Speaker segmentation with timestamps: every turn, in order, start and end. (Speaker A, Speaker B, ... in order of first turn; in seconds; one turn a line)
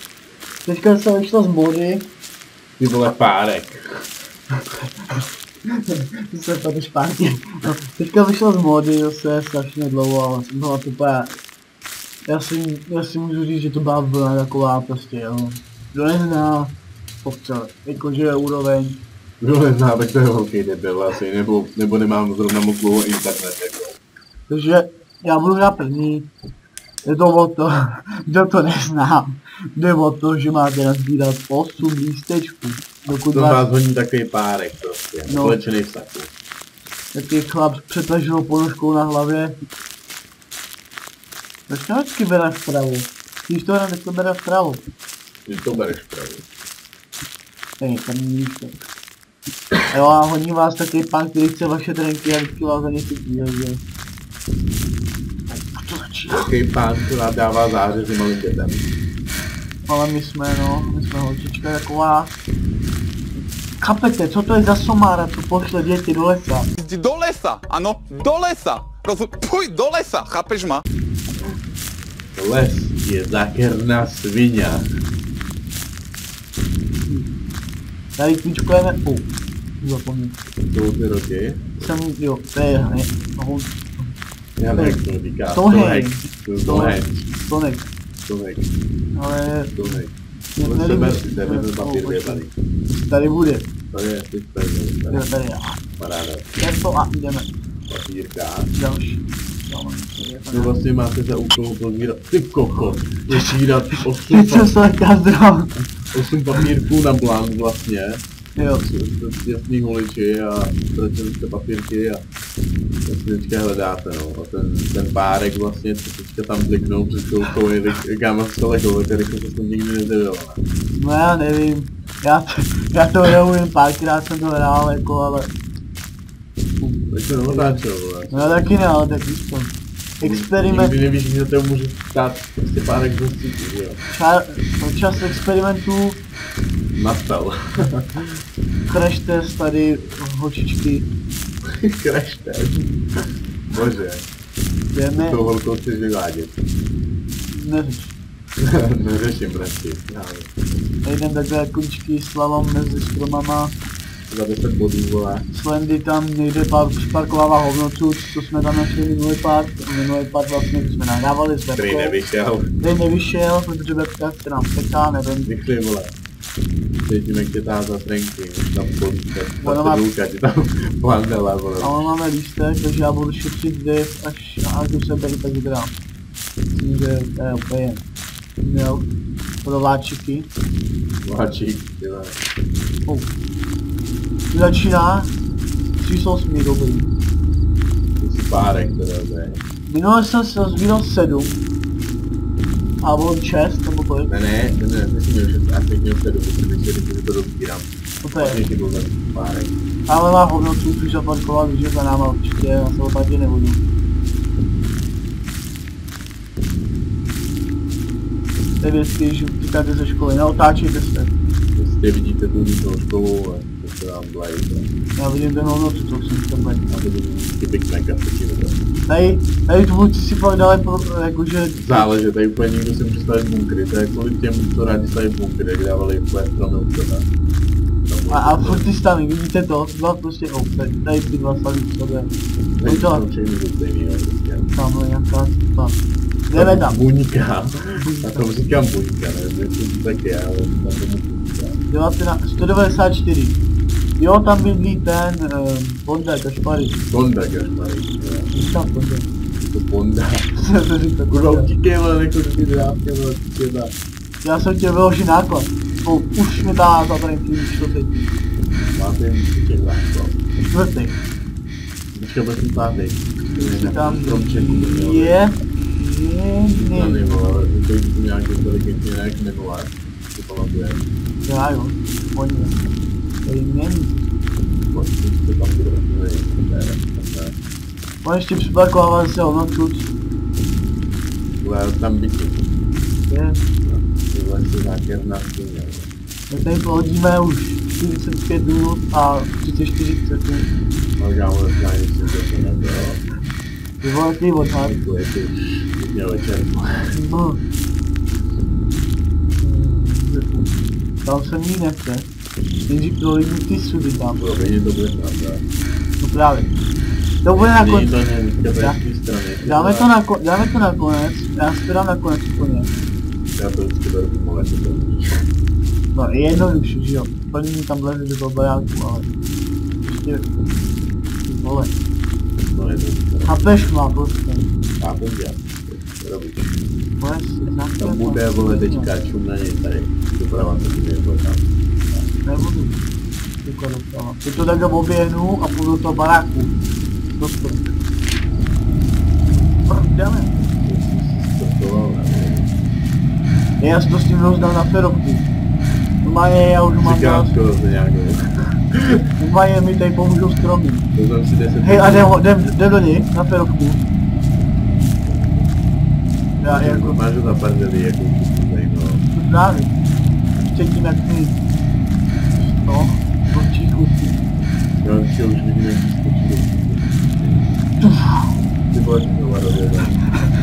Speaker A: 0.7-2.1
Speaker B: 2.8-3.8
Speaker A: 5.7-11.3
Speaker A: 12.3-19.0
Speaker B: 19.4-24.0
Speaker A: 24.5-26.3
Speaker A: 27.0-33.7
Speaker B: 33.3-36.3
Speaker A: 35.3-35.6
Speaker A: 37.1-39.5
Speaker A: 41.7-44.8
Speaker B: 45.5-46.4
Speaker A: 47.8-48.9
Speaker A: 49.9-53.8
Speaker A: 55.5-56.5
Speaker B: 56.3-58.9
Speaker A: 59.9-62.3
Speaker A: 63.8-66.7
Speaker C: 66.8-70.8
Speaker B: 72.3-74.9
Speaker A: 78.2-79.3
Speaker A: 79.8-80.4
Speaker B: 80.7-81.9
Speaker A: 81.8-84.1
Speaker B: 84.6-87.2
Speaker A: 84.7-87.9
Speaker B: 88.2-88.7
Speaker A: 89.1-90.0
Speaker B: 89.7-90.1
Speaker A: 90.5-93.7
Speaker B: 90.6-92.5
Speaker B: 93.9-95.2
Speaker A: 95.1-95.8
Speaker B: 96.0-96.5
Speaker A: 96.6-97.5
Speaker B: 97.9-98.7
Speaker A: 98.7-100.7
Speaker B: 100.5-104.7
Speaker A: 103.3-105.8
Speaker B: 106.1-108.2
Speaker A: 108.5-108.8
Speaker B: 108.8-112.2
Speaker B: 113.0-120.6
Speaker A: 120.9-125.5
Speaker A: 126.8-130.9
Speaker B: 127.1-128.7
Speaker B: 130.2-134.0
Speaker A: 134.1-136.2
Speaker B: 136.9-138.3
Speaker A: 138.9-141.1
Speaker B: 141.6-142.8
Speaker B: 143.7-144.3
Speaker A: 144.9-145.4
Speaker B: 145.2-146.6
Speaker A: 147.5-148.2
Speaker B: 148.6-150.9
Speaker A: 151.0-153.7
Speaker B: 154.3-155.4
Speaker A: 155.5-162.2
Speaker B: 161.8-162.7
Speaker A: 162.8-165.5
Speaker B: 165.4-166.1
Speaker B: 167.0-172.1
Speaker A: 169.6-170.0
Speaker A: 171.8-175.9
Speaker A: 176.8-178.0
Speaker A: 178.6-179.1
Speaker A: 179.6-180.5
Speaker B: 181.2-182.3
Speaker A: 184.5-185.3
Speaker A: 186.0-187.1
Speaker B: 188.2-189.6
Speaker A: 189.9-191.6
Speaker A: 193.0-194.3
Speaker B: 194.3-199.7
Speaker A: 198.2-198.6
Speaker A: 200.1-203.8
Speaker A: 208.8-211.3
Speaker B: 211.8-214.9
Speaker A: 215.2-216.9
Speaker B: 216.9-218.8
Speaker A: 219.1-222.1
Speaker B: 221.8-227.2
Speaker B: 228.1-228.8
Speaker A: 228.3-232.3
Speaker B: 232.8-234.7
Speaker A: 232.8-233.2
Speaker A: 234.7-237.0
Speaker B: 236.5-241.8
Speaker A: 238.0-238.4
Speaker A: 241.9-243.6
Speaker A: 244.2-247.0
Speaker B: 247.1-248.5
Speaker A: 248.5-249.3
Speaker B: 249.6-250.5
Speaker A: 250.6-251.7
Speaker B: 251.3-253.9
Speaker A: 254.4-258.3
Speaker B: 258.9-260.4
Speaker A: 260.6-261.2
Speaker B: 262.1-265.4
Speaker A: 263.5-267.3
Speaker B: 266.8-271.0
Speaker A: 271.4-272.8
Speaker A: 273.4-274.3
Speaker B: 274.9-277.5
Speaker A: 278.2-280.1
Speaker B: 281.6-282.6
Speaker A: 283.3-283.6
Speaker B: 283.8-286.1
Speaker A: 286.5-290.7
Speaker B: 291.2-293.2
Speaker A: 294.0-295.0
Speaker B: 294.8-297.1
Speaker A: 297.1-297.6
Speaker A: 299.6-300.6
Speaker A: 301.2-302.3
Speaker A: 302.9-304.4
Speaker B: 304.4-305.6
Speaker A: 306.2-306.7
Speaker A: 307.4-308.1
Speaker B: 307.5-310.1
Speaker A: 309.6-312.9
Speaker B: 313.6-315.4
Speaker A: 316.1-319.3
Speaker A: 320.0-320.5
Speaker A: 321.4-321.9
Speaker B: 322.7-323.5
Speaker A: 323.4-324.7
Speaker B: 325.0-326.8
Speaker A: 327.2-329.1
Speaker B: 328.0-331.7
Speaker A: 332.4-333.0
Speaker A: 333.6-336.7
Speaker A: 337.4-337.9
Speaker A: 339.8-340.5
Speaker B: 340.8-342.7
Speaker A: 343.8-345.5
Speaker A: 346.2-347.5
Speaker B: 347.0-349.2
Speaker A: 349.4-351.1
Speaker B: 351.1-352.4
Speaker A: 351.8-354.0
Speaker B: 355.2-355.7
Speaker B: 356.6-359.2
Speaker A: 356.6-357.2
Speaker A: 359.3-359.9
Speaker A: 360.6-361.6
Speaker A: 362.5-364.4
Speaker B: 365.0-367.8
Speaker A: 368.0-368.5
Speaker B: 368.9-370.2